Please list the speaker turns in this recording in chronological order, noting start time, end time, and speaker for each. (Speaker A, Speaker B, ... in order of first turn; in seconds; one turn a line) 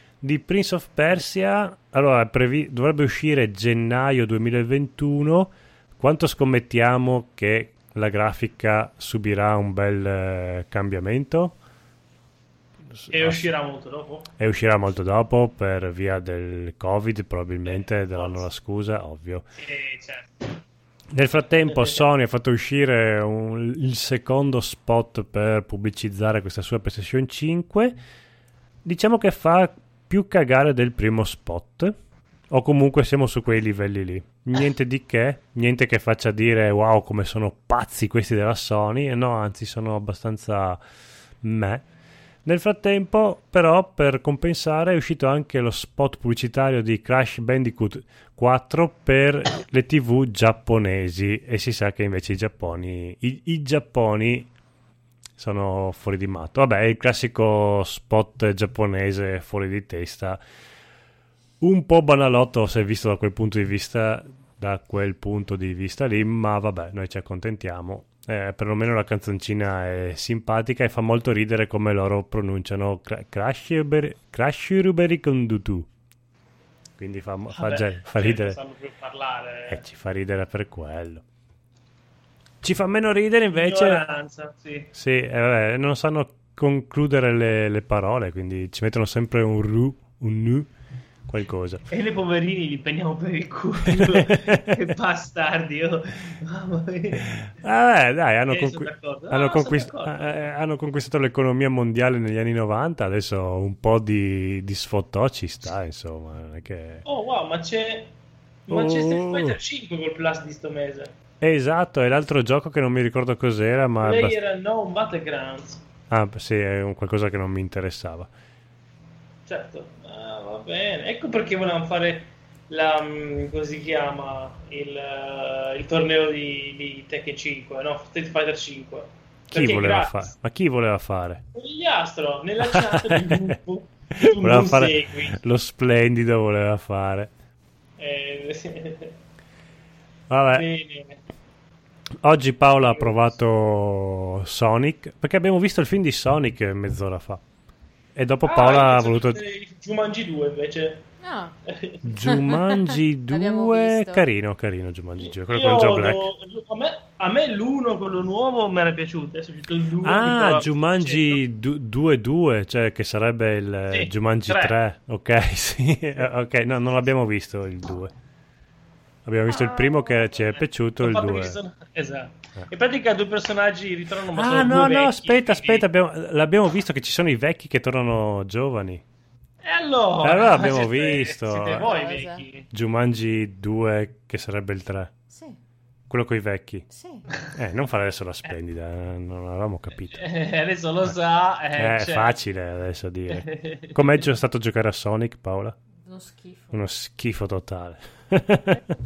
Speaker A: 0.2-11.6
Speaker A: 12.9-13.4
Speaker B: 13.1-14.3
Speaker A: 14.4-19.4
Speaker B: 17.6-18.5
Speaker B: 19.6-20.6
Speaker A: 21.1-28.0
Speaker B: 21.7-22.0
Speaker A: 28.9-31.9
Speaker A: 32.5-40.8
Speaker A: 41.4-41.9
Speaker A: 42.5-54.5
Speaker A: 55.4-60.4
Speaker A: 61.6-75.9
Speaker A: 77.0-78.6
Speaker B: 77.5-79.8
Speaker A: 79.7-81.2
Speaker A: 82.6-84.0
Speaker B: 83.5-84.9
Speaker A: 84.9-90.7
Speaker A: 91.3-91.9
Speaker B: 91.9-97.3
Speaker A: 93.9-94.8
Speaker A: 97.3-107.0
Speaker B: 98.5-100.5
Speaker B: 107.0-108.1
Speaker B: 108.7-111.1
Speaker A: 108.7-109.6
Speaker A: 111.4-114.4
Speaker B: 114.0-115.8
Speaker A: 116.1-118.3
Speaker B: 119.5-130.3
Speaker A: 129.5-131.4
Speaker B: 131.5-135.4
Speaker A: 132.7-133.5
Speaker A: 134.2-137.3
Speaker B: 138.0-139.2
Speaker A: 140.3-140.7
Speaker B: 140.5-141.2
Speaker A: 142.2-147.4
Speaker B: 142.8-143.3
Speaker A: 148.2-149.4
Speaker B: 148.4-151.1
Speaker C: 151.2-151.6
Speaker B: 151.7-152.1
Speaker A: 152.0-156.3
Speaker C: 152.2-154.2
Speaker B: 155.2-161.4
Speaker A: 160.0-168.1
Speaker B: 163.9-164.8
Speaker A: 169.2-171.6
Speaker C: 169.6-170.2
Speaker B: 170.3-175.9
Speaker A: 174.3-179.0
Speaker B: 179.6-182.7
Speaker A: 180.2-181.9
Speaker C: 181.9-182.4
Speaker A: 182.7-185.1
Speaker C: 185.3-185.6
Speaker A: 186.1-186.9
Speaker C: 186.9-187.3
Speaker A: 187.5-190.3
Speaker B: 190.1-192.4
Speaker A: 191.7-195.8
Speaker B: 193.3-194.3
Speaker C: 196.0-196.8
Speaker A: 196.7-199.0